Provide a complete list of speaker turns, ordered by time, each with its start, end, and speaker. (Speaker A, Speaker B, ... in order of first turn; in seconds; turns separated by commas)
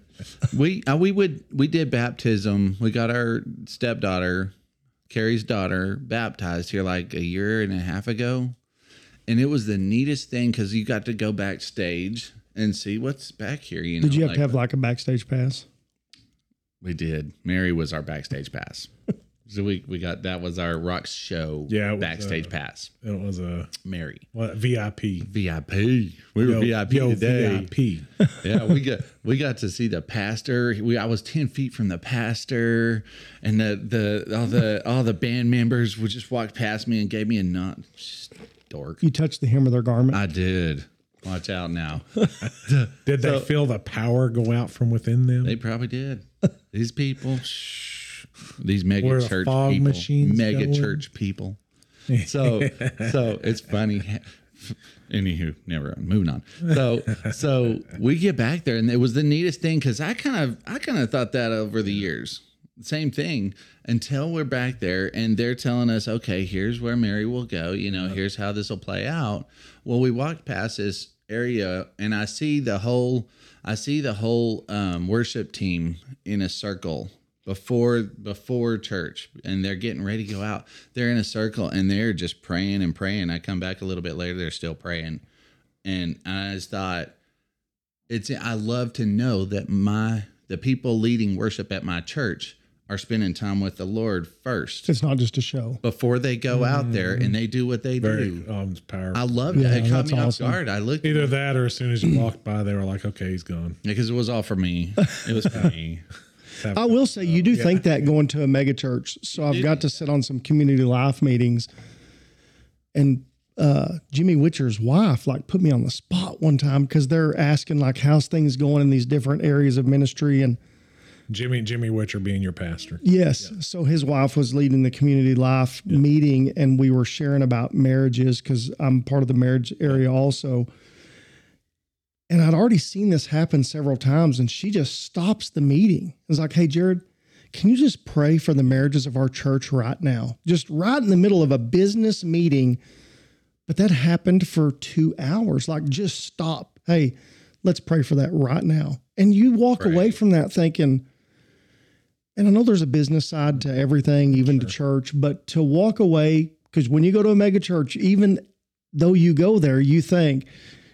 Speaker A: 0.5-4.5, Speaker A: 5.1-8.5, Speaker A: 9.3-14.6, Speaker B: 14.0-15.7, Speaker A: 16.8-18.9, Speaker A: 19.5-22.9, Speaker C: 21.7-22.5, Speaker C: 23.0-23.7, Speaker A: 23.8-24.2, Speaker C: 24.3-25.3, Speaker A: 25.3-27.7, Speaker C: 26.4-28.1, Speaker A: 28.4-39.0, Speaker B: 39.0-40.2, Speaker A: 40.1-43.5, Speaker C: 43.0-45.6, Speaker A: 45.4-51.6, Speaker C: 49.0-51.0, Speaker C: 52.1-53.2, Speaker A: 52.2-85.2, Speaker A: 85.8-87.1, Speaker A: 88.1-94.9, Speaker B: 94.9-95.8, Speaker A: 95.8-98.5, Speaker C: 96.5-97.3, Speaker C: 98.0-99.9, Speaker A: 99.1-101.3, Speaker B: 99.5-100.6, Speaker C: 101.0-103.8, Speaker A: 103.8-106.0, Speaker C: 106.6-107.8, Speaker B: 106.7-111.7, Speaker A: 109.4-109.9, Speaker B: 112.9-120.6, Speaker C: 121.3-123.5, Speaker B: 123.0-130.7, Speaker B: 132.3-142.8, Speaker B: 143.7-151.1, Speaker A: 149.8-150.1, Speaker B: 152.3-160.5, Speaker C: 154.4-154.7